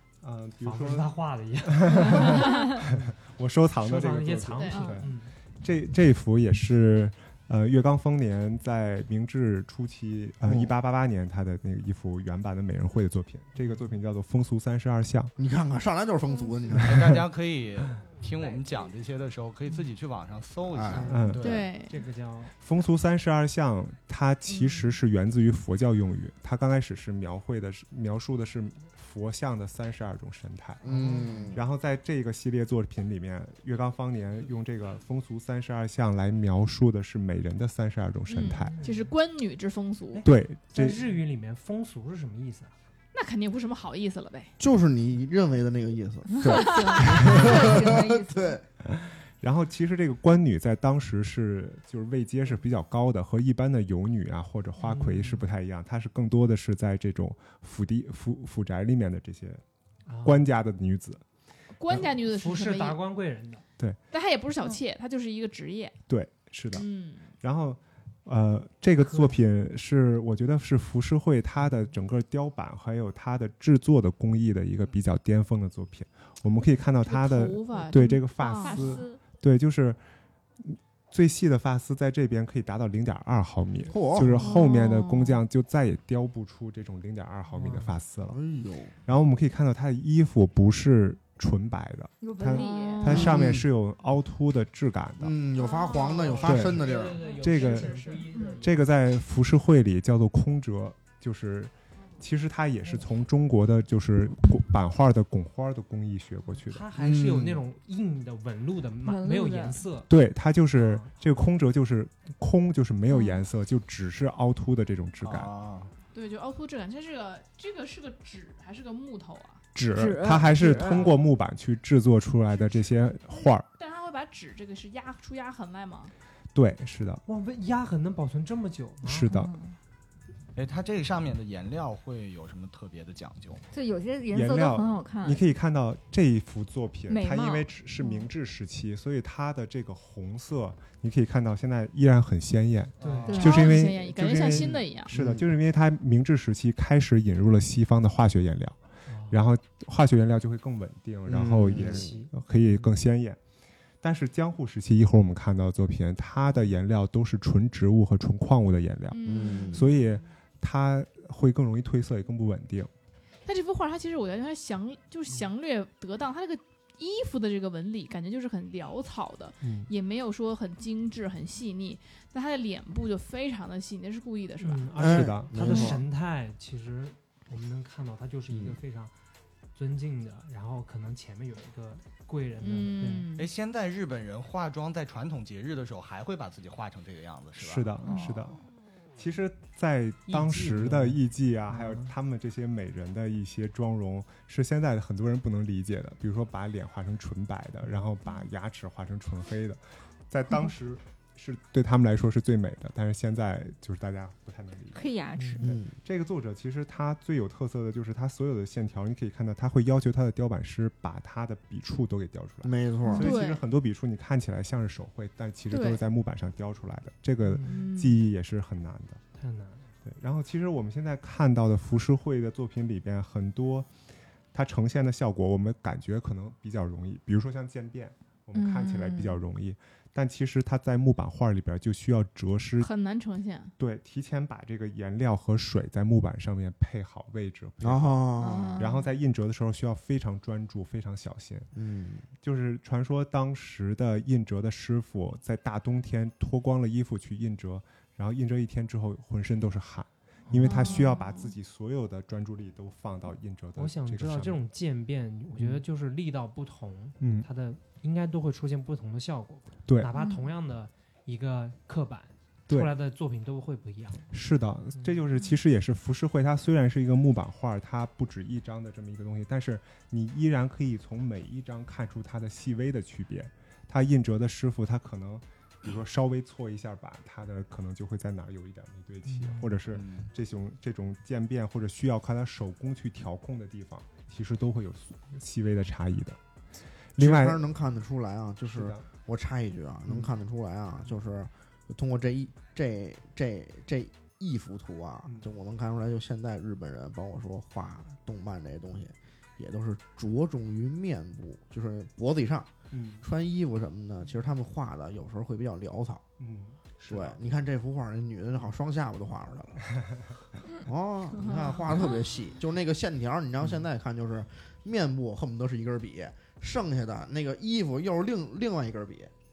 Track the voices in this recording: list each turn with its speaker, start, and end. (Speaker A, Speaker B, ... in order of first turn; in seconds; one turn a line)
Speaker A: 0.2-1.1
Speaker B: 0.6-3.1
Speaker A: 1.6-15.3
Speaker B: 3.8-5.3
Speaker C: 4.6-5.0
Speaker D: 4.7-5.0
Speaker E: 10.4-10.7
Speaker E: 15.4-17.2
Speaker F: 16.8-21.7
Speaker E: 20.7-21.1
Speaker B: 20.9-22.6
Speaker A: 21.1-21.5
Speaker C: 21.4-22.0
Speaker A: 22.6-38.8
Speaker C: 24.5-24.8
Speaker E: 30.8-31.6
Speaker B: 30.9-31.6
Speaker C: 38.3-40.2
Speaker B: 38.4-39.1
Speaker B: 40.1-42.7
Speaker A: 40.2-41.0
Speaker C: 43.1-44.5
Speaker E: 44.6-48.6
Speaker D: 46.4-48.6
Speaker C: 46.6-47.2
Speaker A: 47.2-47.6
Speaker A: 48.8-59.6
Speaker B: 54.8-55.5
Speaker B: 60.1-60.5
Speaker A: 60.2-61.2
Speaker C: 61.7-63.0
Speaker B: 62.0-63.6
Speaker C: 64.1-66.0
Speaker A: 66.1-80.0
Speaker C: 66.7-67.3
Speaker B: 69.0-69.4
Speaker C: 77.0-79.0
Speaker D: 78.5-79.2
Speaker A: 80.6-88.4
Speaker E: 83.9-84.5
Speaker C: 84.4-85.4
Speaker B: 87.5-87.9
Speaker E: 88.3-88.9
Speaker A: 89.0-95.3
Speaker D: 92.2-93.3
Speaker C: 92.5-93.3
Speaker E: 93.1-93.7
Speaker E: 95.2-97.2
Speaker C: 95.6-96.4
Speaker B: 96.1-98.8
Speaker A: 96.4-96.8
Speaker A: 97.4-106.8
Speaker D: 98.0-98.5
Speaker B: 106.7-110.1
Speaker E: 107.0-107.6
Speaker D: 109.0-109.8
Speaker A: 110.1-115.5
Speaker B: 110.8-111.1
Speaker D: 113.1-113.4
Speaker F: 115.2-115.9
Speaker C: 116.1-119.6
Speaker A: 119.7-123.7
Speaker D: 119.9-121.2
Speaker C: 122.5-126.1
Speaker A: 126.5-127.2
Speaker B: 127.2-129.3
Speaker A: 129.0-129.5
Speaker D: 129.3-129.8
Speaker F: 130.5-133.6
Speaker D: 133.7-135.4
Speaker A: 134.3-153.4
Speaker D: 137.1-138.2
Speaker B: 143.0-143.4
Speaker F: 143.0-143.5
Speaker D: 143.2-143.9
Speaker C: 143.3-145.1
Speaker E: 145.1-145.5
Speaker B: 149.1-149.4
Speaker E: 151.2-152.1
Speaker B: 151.7-152.9
Speaker A: 154.0-159.2
Speaker C: 159.1-159.8
Speaker E: 159.2-159.9
Speaker A: 159.7-162.9
Speaker C: 163.4-174.9
Speaker A: 169.6-169.9
Speaker B: 174.6-179.1
Speaker E: 174.9-176.0
Speaker A: 175.0-176.0
Speaker B: 179.7-183.3
Speaker C: 182.6-183.5
Speaker F: 183.3-188.4
Speaker A: 187.6-188.6
Speaker A: 189.2-205.1
Speaker B: 190.3-192.1
Speaker D: 204.9-205.7
Speaker B: 205.3-205.6
Speaker E: 205.6-205.9
Speaker A: 205.6-219.2
Speaker E: 212.6-213.4
Speaker C: 213.1-213.6
Speaker C: 215.7-216.0
Speaker B: 217.4-217.8
Speaker C: 217.6-218.2
Speaker B: 219.3-219.9
Speaker A: 220.0-223.9
Speaker A: 224.5-232.9
Speaker D: 228.5-229.4
Speaker C: 232.8-233.7
Speaker A: 233.8-241.7
Speaker E: 237.8-238.8
Speaker D: 238.4-239.1
Speaker E: 241.7-242.2
Speaker A: 242.4-254.6
Speaker B: 250.5-250.9
Speaker D: 250.7-251.2
Speaker C: 250.7-251.3
Speaker B: 253.8-264.3
Speaker A: 255.6-255.8
Speaker A: 257.2-257.5
Speaker D: 260.1-260.4
Speaker A: 264.3-286.4
Speaker B: 264.9-265.2
Speaker B: 279.2-279.7
Speaker F: 279.9-280.3
Speaker A: 287.1-287.6
Speaker E: 287.2-306.2
Speaker A: 288.7-289.1
Speaker A: 302.9-303.2
Speaker A: 306.4-307.4
Speaker E: 307.1-309.9
Speaker E: 310.8-319.3
Speaker C: 311.4-311.7